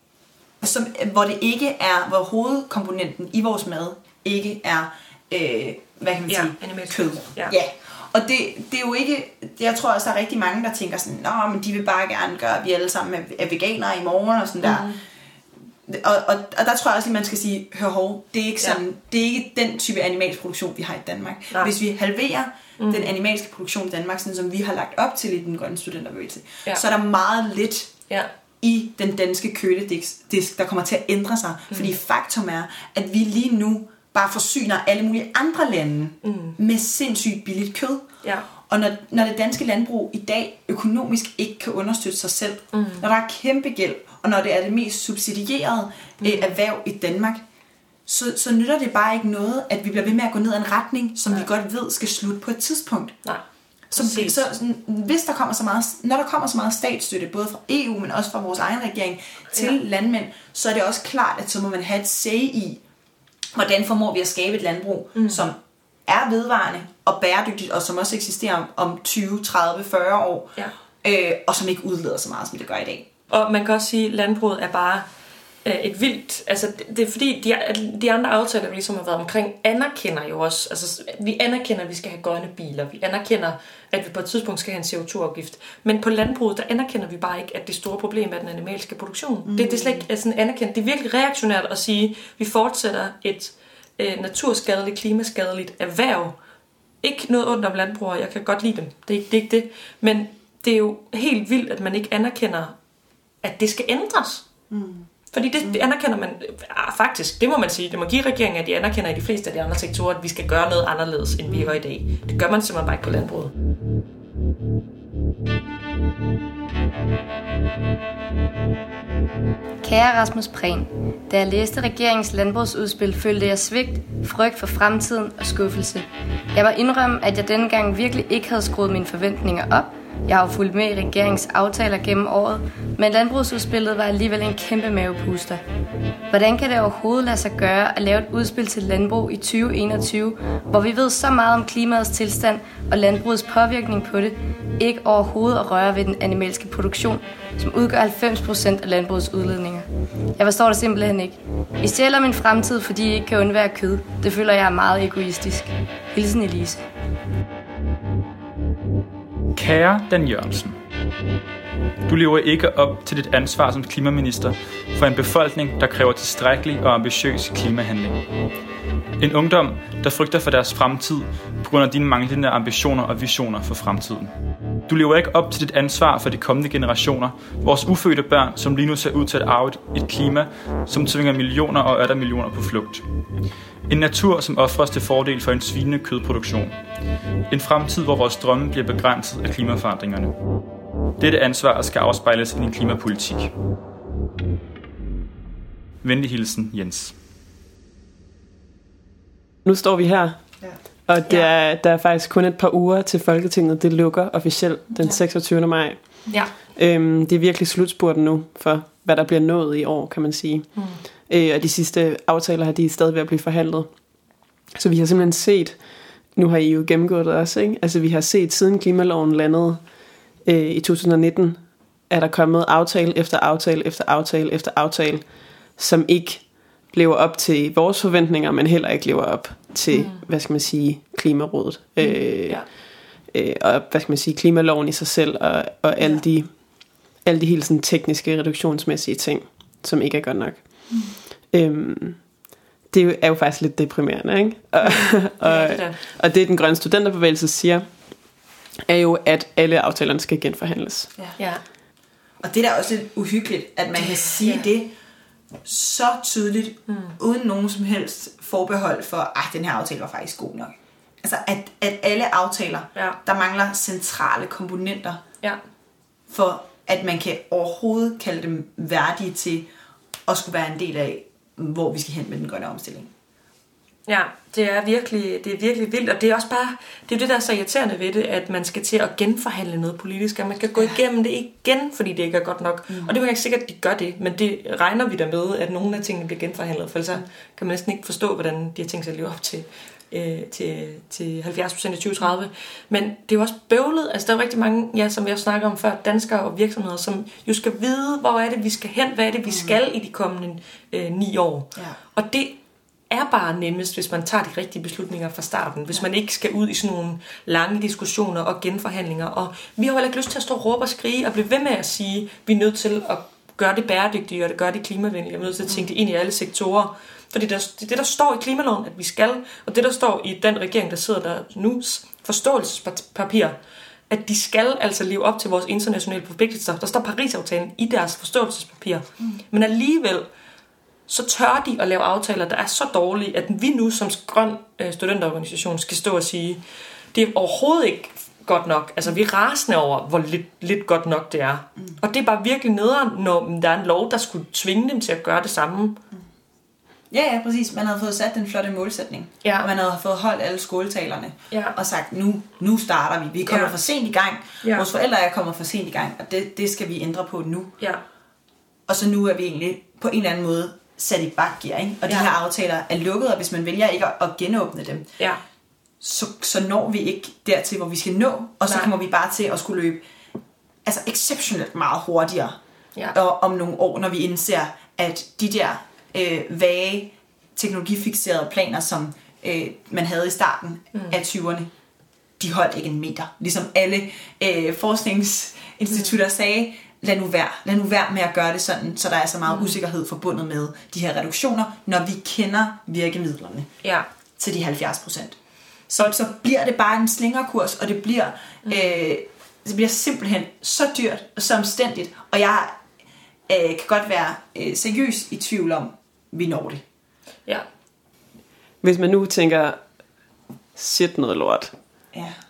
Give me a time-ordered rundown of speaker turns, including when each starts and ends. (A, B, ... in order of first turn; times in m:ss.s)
0:00.6-0:14.9 A
0:06.3-0:07.5 B
0:14.6-0:15.0 B
0:15.9-0:27.9 A
0:22.8-0:23.1 B
0:28.6-0:38.1 A
0:36.2-0:36.6 B
0:38.6-0:47.4 A
0:42.7-0:43.1 B
0:46.2-0:46.6 B
0:48.1-0:53.2 A
0:53.9-1:02.8 A
0:53.9-0:54.4 B
1:03.5-1:13.1 A
1:05.1-1:05.4 B
1:13.3-1:15.1 B
1:15.6-1:36.4 B
1:29.5-1:30.0 A
1:37.0-1:42.7 B
1:43.4-1:44.4 B
1:44.7-1:45.1 A
1:45.3-1:53.5 B
1:45.6-1:45.9 A
1:51.4-1:51.8 A
1:59.8-2:15.6 C
2:16.3-2:29.8 C
2:30.4-2:36.8 C
2:39.6-2:40.7 D
2:42.1-2:48.2 D
2:49.2-2:54.3 D
2:54.9-3:03.0 D
3:03.9-3:06.7 D
3:07.5-3:10.3 D
3:11.2-3:13.5 D
3:16.0-3:17.1 D
3:19.6-4:08.3 E
3:30.7-3:31.0 B
3:49.9-3:50.2 B
3:52.0-3:52.6 B
4:04.8-4:06.0 B
4:08.9-4:11.1 E
4:11.4-4:11.6 B
4:12.4-4:14.9 A
4:14.0-4:14.7 B
4:15.6-4:25.2 A
4:16.9-4:17.2 B
4:26.3-4:29.7 A
4:30.3-4:33.1 A
4:34.1-5:02.6 B
4:42.9-4:43.1 A
4:59.5-4:59.8 A
5:03.1-5:23.6 B
5:24.1-5:30.3 B
5:31.1-5:36.6 B
5:37.1-5:46.0 B
5:47.1-5:57.8 A
5:49.4-5:49.7 B
5:53.5-5:53.7 B
5:54.6-5:54.9 B
5:58.9-6:05.1 A
6:02.0-6:02.3 B
6:06.0-6:10.0 A
6:10.8-6:12.6 A
6:13.1-6:21.7 A
6:22.4-6:33.8 A
6:25.9-6:26.2 B
6:29.5-6:29.7 B
6:34.4-6:35.4 A
6:35.9-6:42.7 A
6:38.6-6:39.0 B
6:43.5-6:46.8 A
6:48.8-6:49.8 E
6:50.7-6:51.8 E